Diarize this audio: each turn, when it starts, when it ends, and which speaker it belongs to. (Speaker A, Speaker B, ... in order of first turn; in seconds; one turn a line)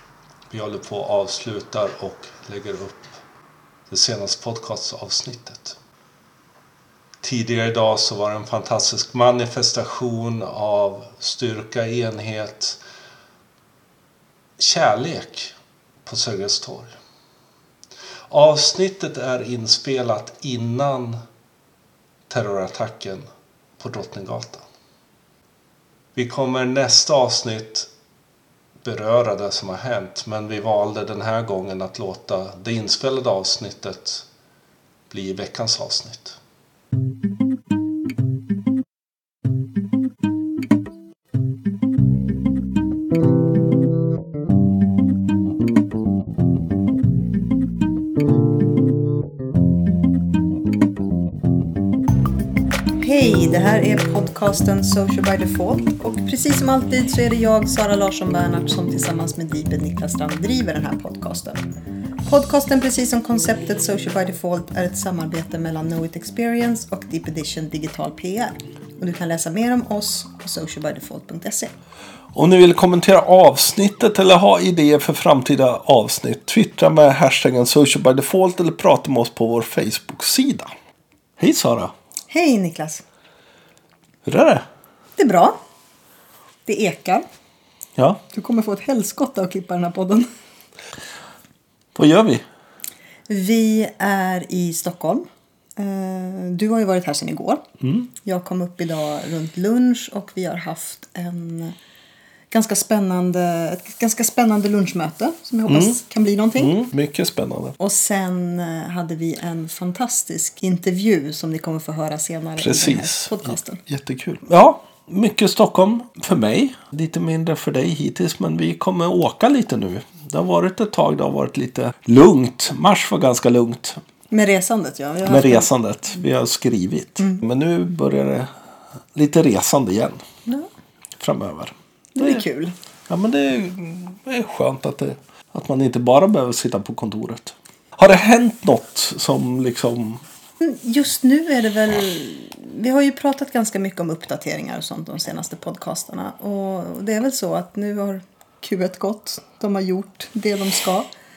Speaker A: 0.5-3.2
Speaker A: 3.9-5.8
Speaker A: 7.2-12.8
Speaker A: 14.6-15.5
Speaker A: 16.1-16.9
Speaker A: 18.3-21.2
Speaker A: 22.3-23.2
Speaker A: 23.8-24.6
Speaker A: 26.1-27.9
Speaker A: 28.8-34.3
Speaker A: 35.1-36.4
Speaker B: 53.0-61.7
Speaker B: 62.2-71.7
Speaker C: 72.3-80.7
Speaker C: 81.4-81.9
Speaker B: 82.3-83.0
Speaker C: 84.2-84.7
Speaker B: 85.2-85.6
Speaker B: 86.7-87.2
Speaker B: 88.3-90.3
Speaker C: 92.0-92.4
Speaker B: 93.3-95.3
Speaker B: 95.8-97.6
Speaker C: 97.8-98.1
Speaker B: 98.2-101.8
Speaker B: 102.5-106.8
Speaker C: 105.7-106.0
Speaker C: 106.6-107.8
Speaker B: 107.8-113.8
Speaker C: 112.6-124.0
Speaker B: 124.3-125.7
Speaker C: 125.3-128.5
Speaker C: 129.2-130.2
Speaker C: 131.2-132.4
Speaker B: 132.2-132.7
Speaker C: 133.1-140.2
Speaker B: 140.6-151.1